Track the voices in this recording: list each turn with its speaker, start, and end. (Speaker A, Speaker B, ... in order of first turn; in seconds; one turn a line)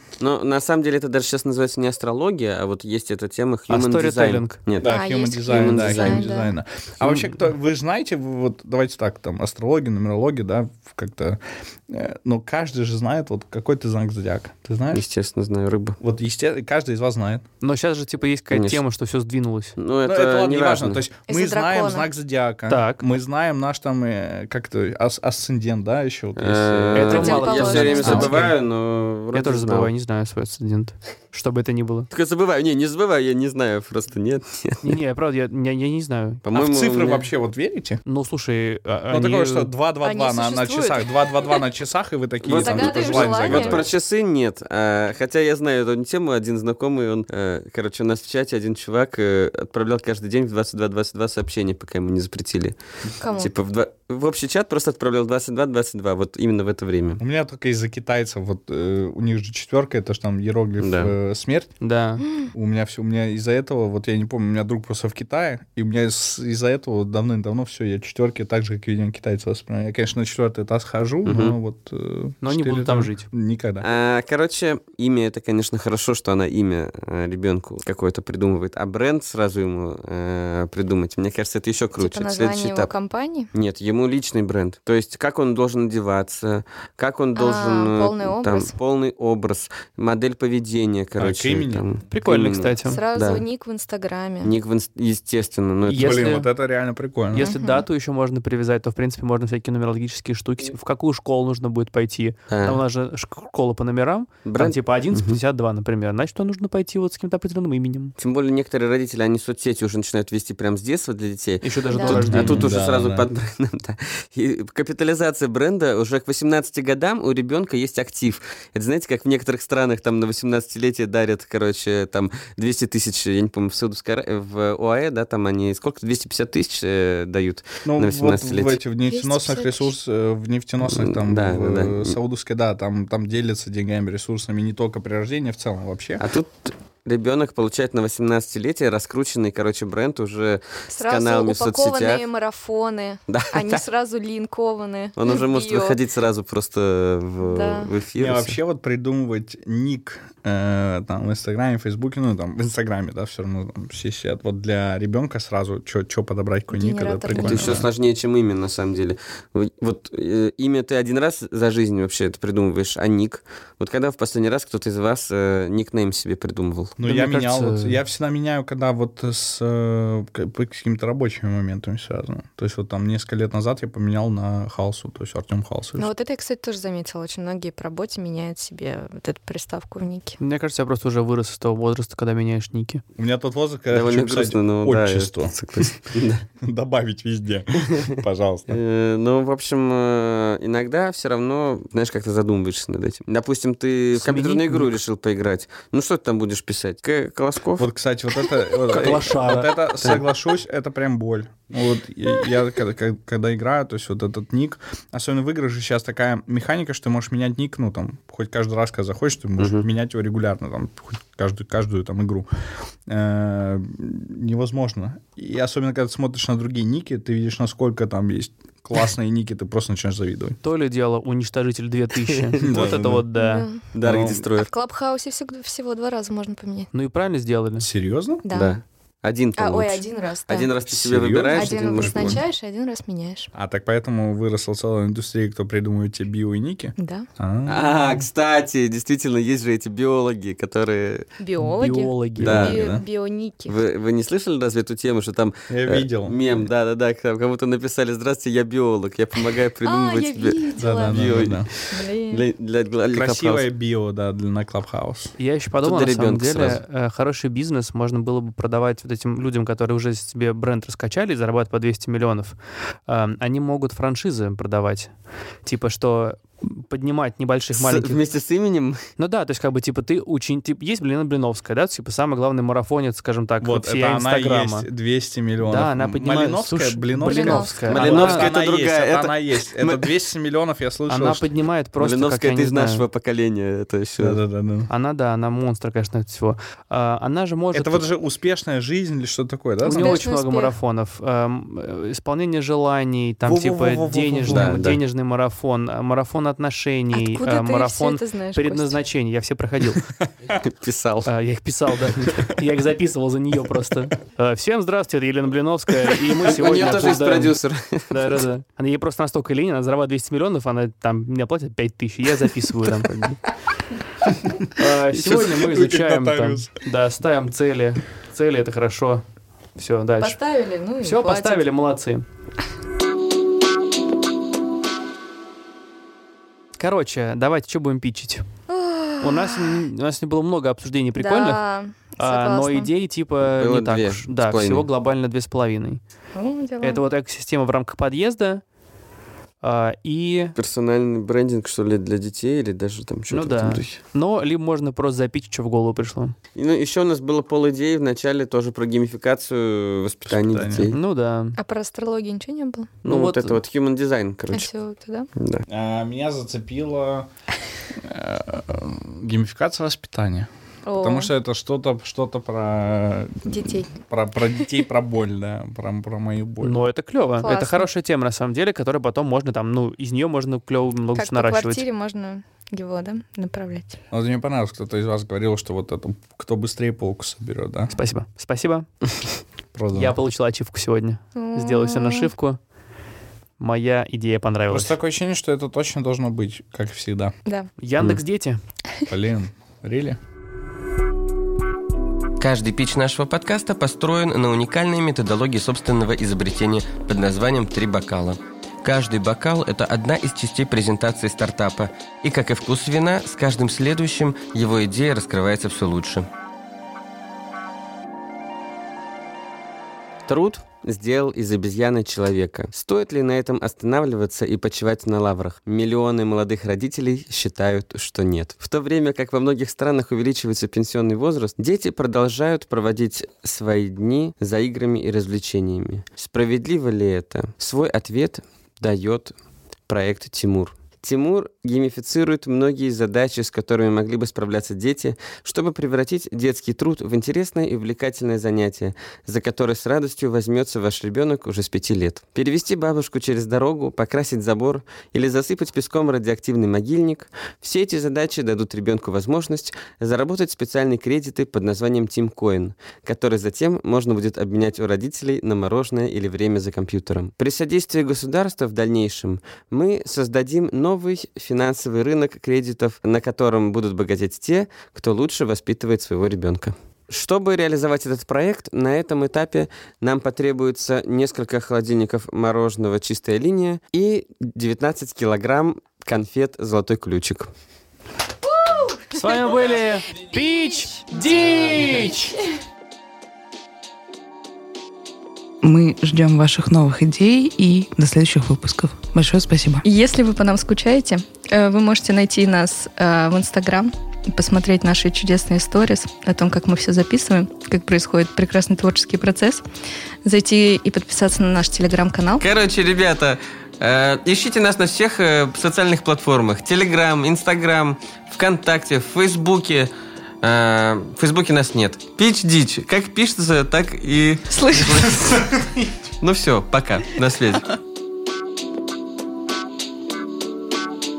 Speaker A: 0.2-6.3
Speaker B: 3.7-4.6
Speaker C: 4.8-15.0
Speaker D: 4.8-6.5
Speaker A: 14.9-16.0
Speaker C: 16.0-17.4
Speaker B: 17.6-19.7
Speaker A: 18.5-18.8
Speaker A: 19.8-21.0
Speaker C: 20.1-28.4
Speaker D: 21.3-22.1
Speaker B: 22.7-23.0
Speaker A: 26.4-29.9
Speaker B: 26.9-28.6
Speaker D: 27.1-28.4
Speaker B: 29.3-32.1
Speaker A: 32.1-35.0
Speaker B: 34.8-36.4
Speaker A: 36.4-37.3
Speaker C: 36.5-38.0
Speaker B: 38.0-39.7
Speaker C: 39.1-43.9
Speaker D: 40.0-41.6
Speaker A: 42.4-52.8
Speaker D: 42.5-43.9
Speaker D: 53.2-53.5
Speaker A: 53.3-57.2
Speaker C: 57.2-61.7
Speaker A: 60.8-61.1
Speaker B: 61.8-62.2
Speaker C: 62.5-73.9
Speaker A: 71.2-71.5
Speaker B: 72.4-73.2
Speaker A: 73.8-82.9
Speaker D: 82.0-83.5
Speaker A: 83.5-93.4
Speaker D: 87.3-88.7
Speaker C: 91.2-91.8
Speaker B: 92.1-93.0
Speaker D: 92.8-94.5
Speaker A: 94.4-96.2
Speaker B: 95.9-96.5
Speaker C: 95.9-97.5
Speaker B: 97.3-108.1
Speaker D: 97.4-97.8
Speaker A: 102.5-102.8
Speaker A: 104.4-105.4
Speaker A: 108.2-128.8
Speaker B: 111.6-112.7
Speaker D: 111.9-112.3
Speaker C: 112.1-113.3
Speaker C: 127.8-136.2
Speaker D: 129.0-129.9
Speaker A: 130.8-132.2
Speaker A: 136.2-142.2
Speaker D: 140.9-146.0
Speaker A: 143.3-143.8
Speaker A: 145.2-148.6
Speaker D: 147.4-147.9
Speaker C: 148.2-157.9
Speaker D: 156.7-157.8
Speaker A: 157.3-166.9
Speaker C: 167.0-176.1
Speaker B: 167.0-168.0
Speaker D: 176.0-180.4
Speaker B: 180.4-183.0
Speaker C: 183.2-185.9
Speaker A: 183.9-186.4
Speaker C: 186.6-188.8
Speaker A: 188.7-197.9
Speaker B: 194.1-195.0
Speaker C: 197.8-212.4
Speaker B: 198.9-199.8
Speaker A: 209.6-209.9
Speaker C: 213.1-220.6
Speaker B: 220.6-223.7
Speaker C: 222.6-223.2
Speaker D: 223.3-223.9
Speaker A: 223.9-224.7
Speaker C: 224.0-224.4
Speaker D: 224.6-226.9
Speaker B: 226.9-227.9
Speaker C: 227.8-228.4
Speaker D: 228.4-228.8
Speaker A: 228.5-232.4
Speaker D: 229.6-230.7
Speaker C: 230.9-232.4
Speaker D: 231.5-233.5
Speaker C: 233.5-238.2
Speaker D: 237.0-237.2
Speaker A: 237.7-241.2
Speaker D: 241.4-243.8
Speaker B: 241.6-242.7
Speaker A: 242.4-242.8
Speaker C: 242.4-243.0
Speaker A: 243.7-253.7
Speaker C: 245.7-246.4
Speaker D: 249.8-252.4
Speaker C: 250.8-251.7
Speaker C: 253.1-255.3
Speaker B: 255.4-262.5
Speaker A: 255.8-256.8
Speaker B: 263.1-265.1
Speaker B: 265.6-268.2
Speaker A: 267.7-269.0
Speaker B: 269.2-274.9
Speaker C: 273.6-281.5
Speaker B: 275.6-278.5
Speaker D: 277.2-277.8
Speaker A: 277.9-280.1
Speaker B: 281.1-283.0
Speaker A: 282.0-284.4
Speaker C: 284.2-284.9
Speaker B: 284.9-288.0
Speaker C: 287.7-290.2
Speaker B: 289.8-300.1
Speaker D: 289.9-290.7
Speaker C: 293.4-294.9
Speaker A: 294.5-295.0
Speaker D: 297.1-299.0
Speaker A: 300.5-301.3
Speaker B: 301.2-307.6
Speaker A: 306.4-308.4
Speaker B: 308.1-313.4
Speaker B: 314.7-319.2
Speaker C: 315.1-316.7
Speaker B: 319.8-320.4
Speaker D: 320.2-321.6
Speaker B: 321.0-322.2
Speaker B: 326.8-328.4
Speaker D: 328.7-329.8
Speaker B: 329.2-331.6
Speaker D: 331.1-332.9
Speaker B: 332.2-336.0
Speaker A: 333.6-334.9
Speaker D: 336.3-337.0
Speaker B: 336.8-338.6
Speaker B: 339.6-340.5
Speaker A: 340.6-344.0
Speaker B: 343.3-346.3
Speaker A: 346.5-350.9
Speaker C: 350.3-350.9
Speaker B: 350.9-351.6
Speaker D: 351.6-352.9
Speaker A: 353.0-354.7
Speaker B: 353.0-353.6
Speaker D: 354.5-355.3
Speaker A: 355.4-355.6
Speaker C: 355.7-357.3
Speaker C: 357.9-366.8
Speaker D: 360.9-361.3
Speaker D: 363.5-363.9
Speaker B: 366.6-371.8
Speaker D: 367.4-367.9
Speaker D: 371.1-374.0
Speaker C: 374.1-377.9
Speaker B: 377.9-378.9
Speaker C: 379.7-380.1
Speaker B: 379.9-382.6
Speaker D: 381.3-382.3
Speaker B: 383.6-384.9
Speaker C: 384.7-387.4
Speaker B: 387.8-388.6
Speaker C: 389.1-390.2
Speaker E: 392.4-406.3
Speaker A: 410.3-429.3
Speaker A: 429.9-477.5
Speaker D: 478.4-482.4
Speaker B: 479.1-482.4
Speaker F: 485.6-489.8
Speaker D: 489.8-499.6
Speaker D: 500.2-502.4
Speaker A: 502.4-515.4
Speaker D: 514.5-515.4
Speaker C: 515.4-515.9
Speaker A: 516.2-517.7